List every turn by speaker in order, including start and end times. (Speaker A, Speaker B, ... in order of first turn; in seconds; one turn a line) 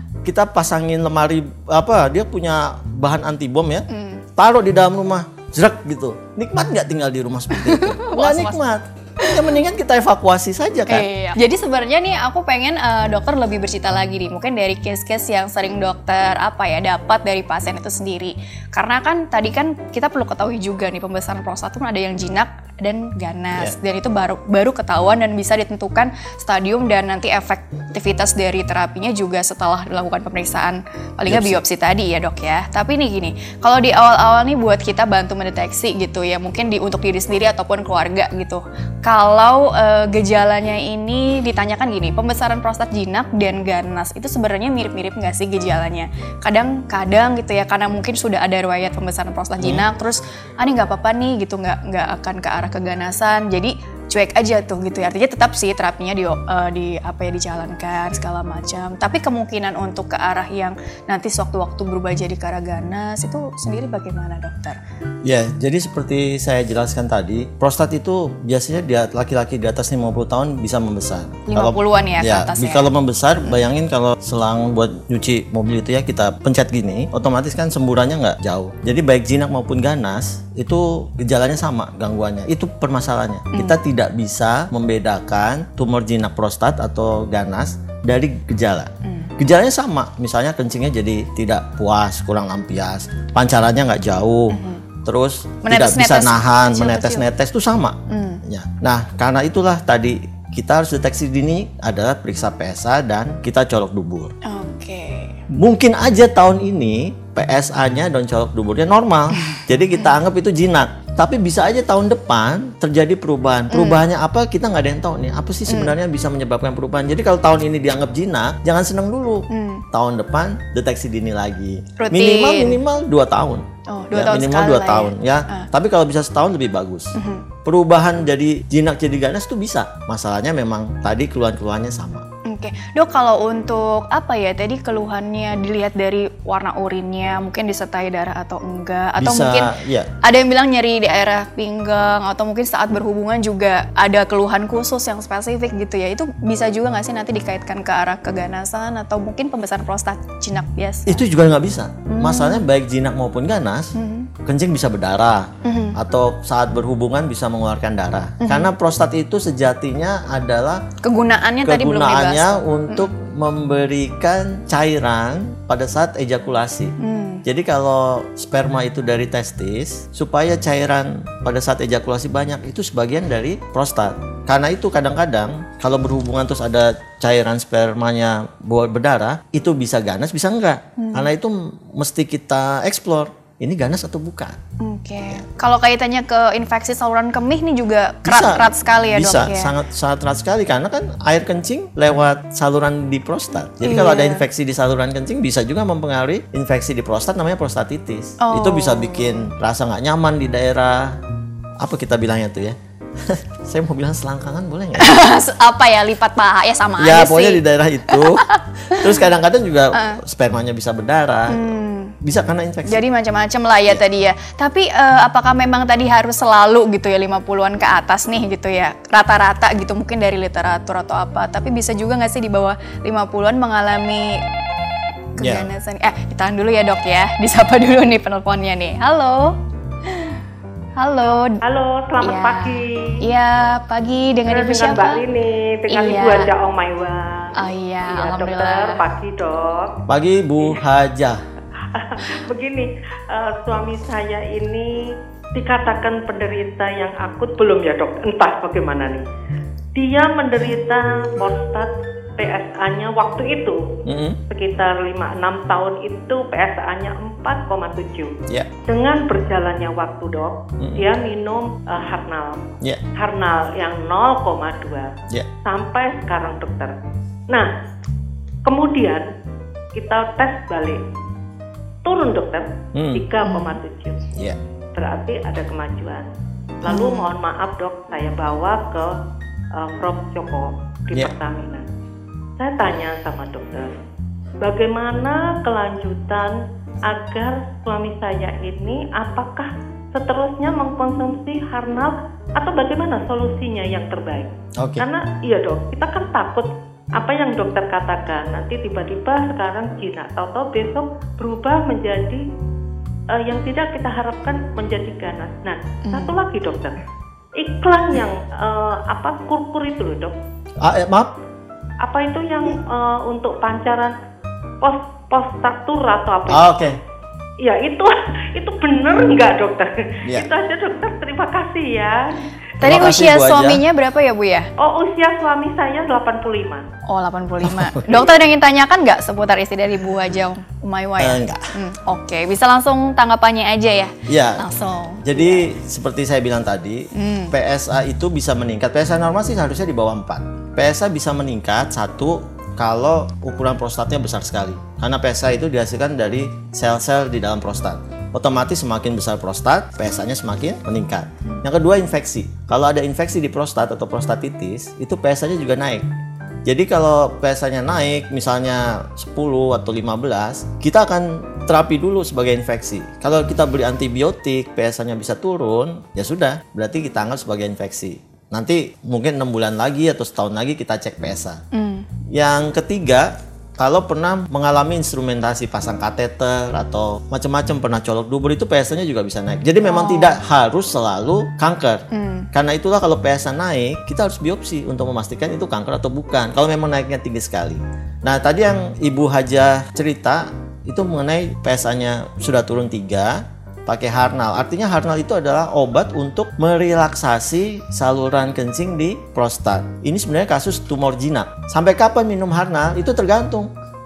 Speaker A: 0.2-3.9
Speaker B: 3.9-4.2
Speaker A: 4.4-11.1
Speaker B: 7.6-8.6
Speaker B: 10.9-64.8
Speaker A: 31.3-31.6
Speaker A: 49.6-49.9
Speaker A: 65.2-104.3
Speaker B: 71.5-72.9
Speaker B: 89.0-89.3
Speaker B: 94.5-94.8
Speaker B: 95.6-97.3
Speaker B: 98.1-98.4
Speaker B: 104.4-105.4
Speaker A: 105.5-132.3
Speaker B: 113.7-114.0
Speaker B: 115.7-115.9
Speaker B: 119.5-119.8
Speaker B: 122.0-122.8
Speaker B: 123.9-125.7
Speaker B: 127.2-127.5
Speaker B: 132.4-139.7
Speaker A: 139.2-140.1
Speaker B: 140.2-151.2
Speaker A: 151.1-153.9
Speaker B: 152.1-152.6
Speaker B: 153.9-154.3
Speaker A: 154.4-160.8
Speaker B: 155.6-156.0
Speaker B: 158.4-158.7
Speaker B: 161.0-163.1
Speaker A: 161.6-184.6
Speaker B: 167.0-167.4
Speaker B: 181.0-181.3
Speaker B: 184.8-189.7
Speaker A: 188.2-201.2
Speaker B: 193.8-194.4
Speaker B: 198.4-199.5
Speaker A: 201.8-205.2
Speaker B: 205.0-207.6
Speaker A: 207.0-211.6
Speaker B: 208.1-209.1
Speaker B: 209.9-210.2
Speaker B: 211.5-212.2
Speaker A: 212.2-213.0
Speaker B: 212.9-224.4
Speaker B: 225.4-229.6
Speaker A: 225.4-225.7
Speaker B: 230.1-230.4
Speaker B: 231.0-231.6
Speaker C: 231.6-233.2
Speaker B: 232.2-235.2
Speaker C: 234.5-240.0
Speaker B: 235.9-236.5
Speaker B: 237.6-239.0
Speaker A: 240.1-241.4
Speaker C: 241.8-249.2
Speaker C: 249.9-254.0
Speaker A: 254.1-254.4
Speaker C: 254.5-265.1
Speaker A: 260.8-261.1
Speaker C: 265.6-266.9
Speaker C: 268.6-269.3
Speaker C: 269.9-271.1
Speaker C: 272.0-274.3
Speaker A: 272.9-273.2
Speaker B: 273.4-273.8
Speaker C: 274.9-276.3
Speaker C: 276.8-279.2
Speaker B: 276.9-277.3
Speaker C: 279.7-281.9
Speaker C: 282.6-284.0
Speaker C: 284.6-302.4
Speaker A: 294.8-295.1
Speaker C: 303.3-307.0
Speaker B: 306.1-306.4
Speaker C: 307.6-310.4
Speaker A: 310.8-311.3
Speaker C: 312.0-314.1
Speaker C: 314.8-317.0
Speaker A: 316.5-317.0
Speaker C: 317.6-323.0
Speaker A: 322.8-323.8
Speaker B: 322.8-324.7
Speaker C: 324.8-326.9
Speaker B: 327.1-335.7
Speaker A: 327.6-328.3
Speaker A: 331.2-331.7
Speaker A: 334.3-334.7
Speaker A: 335.2-356.1
Speaker B: 337.1-337.5
Speaker A: 356.7-371.6
Speaker B: 371.7-372.1
Speaker A: 372.3-403.7
Speaker B: 379.8-380.4
Speaker B: 382.1-382.5